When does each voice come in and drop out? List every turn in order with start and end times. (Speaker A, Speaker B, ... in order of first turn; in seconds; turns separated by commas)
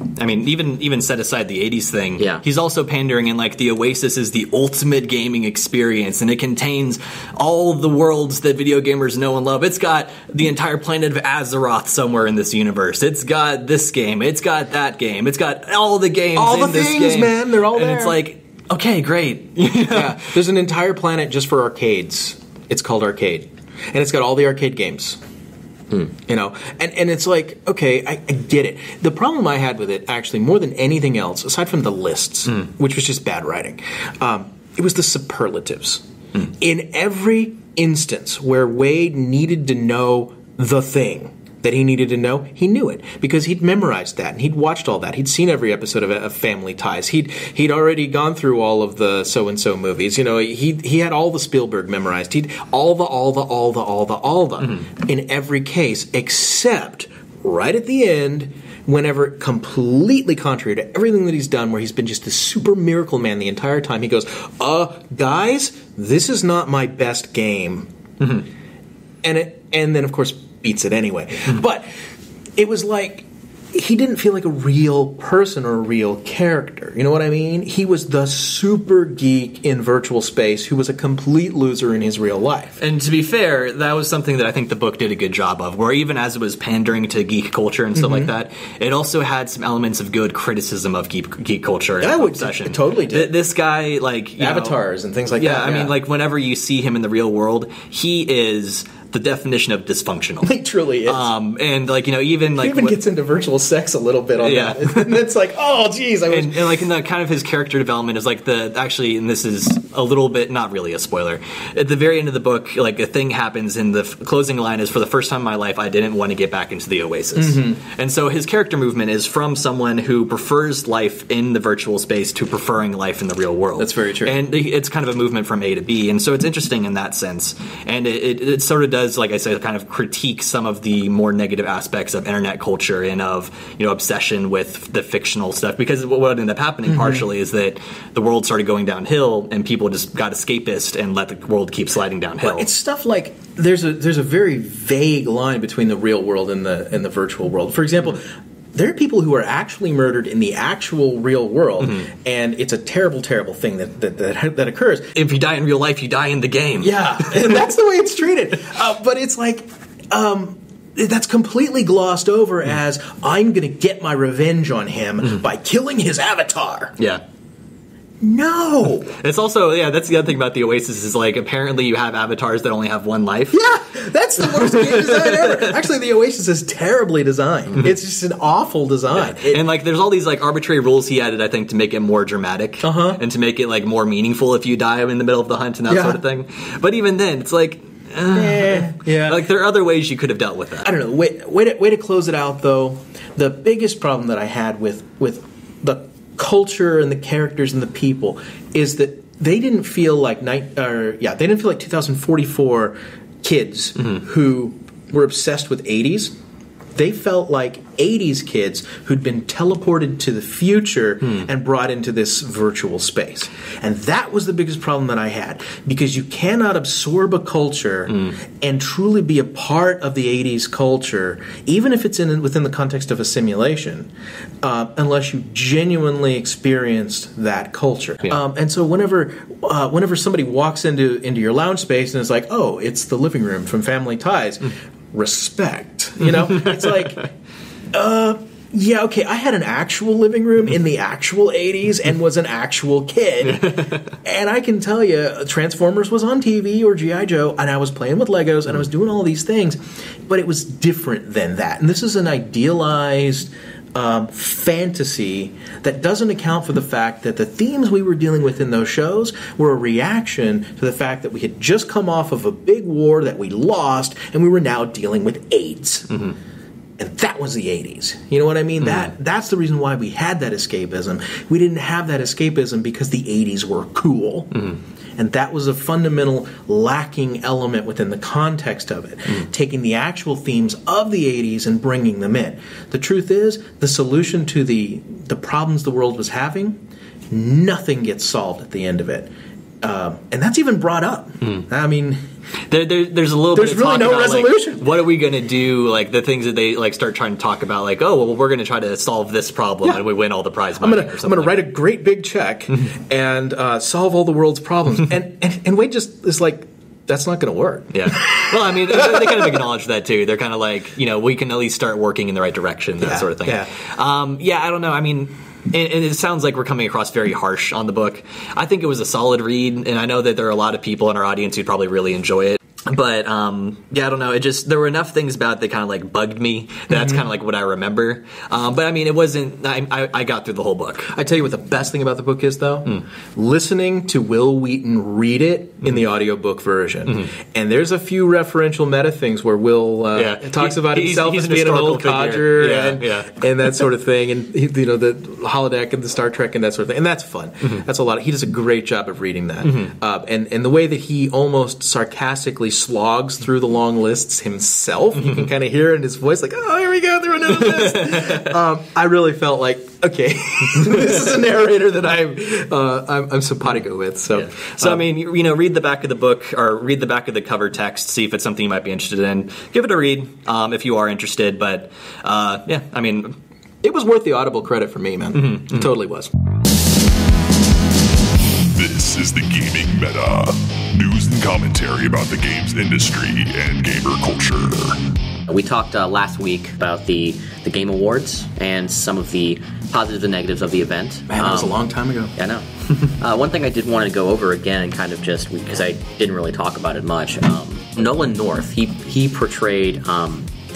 Speaker A: 0.1-20.2, Speaker B: 2.2-2.4, Speaker C: 16.3-18.2, Speaker C: 19.7-25.2, Speaker C: 26.3-67.9, Speaker C: 69.2-71.9, Speaker C: 72.5-82.8, Speaker A: 82.8-94.8, Speaker C: 87.9-88.3, Speaker C: 92.0-93.4, Speaker C: 94.4-95.9, Speaker A: 95.3-103.0, Speaker C: 100.4-101.3, Speaker C: 102.5-106.9, Speaker A: 104.4-105.2, Speaker A: 106.3-142.7, Speaker C: 117.3-117.8, Speaker C: 123.8-124.3, Speaker C: 136.9-137.3, Speaker C: 142.4-155.1, Speaker A: 155.1-157.6, Speaker C: 156.8-166.9, Speaker C: 168.2-169.2, Speaker A: 169.2-173.6, Speaker C: 173.5-179.7, Speaker A: 174.7-175.4, Speaker A: 179.1-190.9, Speaker C: 182.8-183.2, Speaker C: 185.9-186.2, Speaker C: 188.3-189.4, Speaker C: 190.8-206.3, Speaker C: 206.9-224.1, Speaker C: 224.6-237.3, Speaker A: 236.6-237.0, Speaker C: 237.9-266.3, Speaker A: 243.4-244.2, Speaker C: 267.0-289.3, Speaker C: 289.8-292.2, Speaker A: 292.7-301.6, Speaker C: 293.5-294.9, Speaker C: 300.8-309.6, Speaker A: 307.9-331.1, Speaker C: 313.0-313.7, Speaker C: 326.9-327.2, Speaker C: 331.1-365.0, Speaker A: 340.1-343.4, Speaker A: 349.6-349.9, Speaker A: 357.7-358.5, Speaker A: 364.3-373.4, Speaker C: 373.8-376.3, Speaker A: 375.4-375.8, Speaker D: 378.7-385.0, Speaker B: 385.5-391.8, Speaker C: 391.3-392.3, Speaker B: 392.4-400.5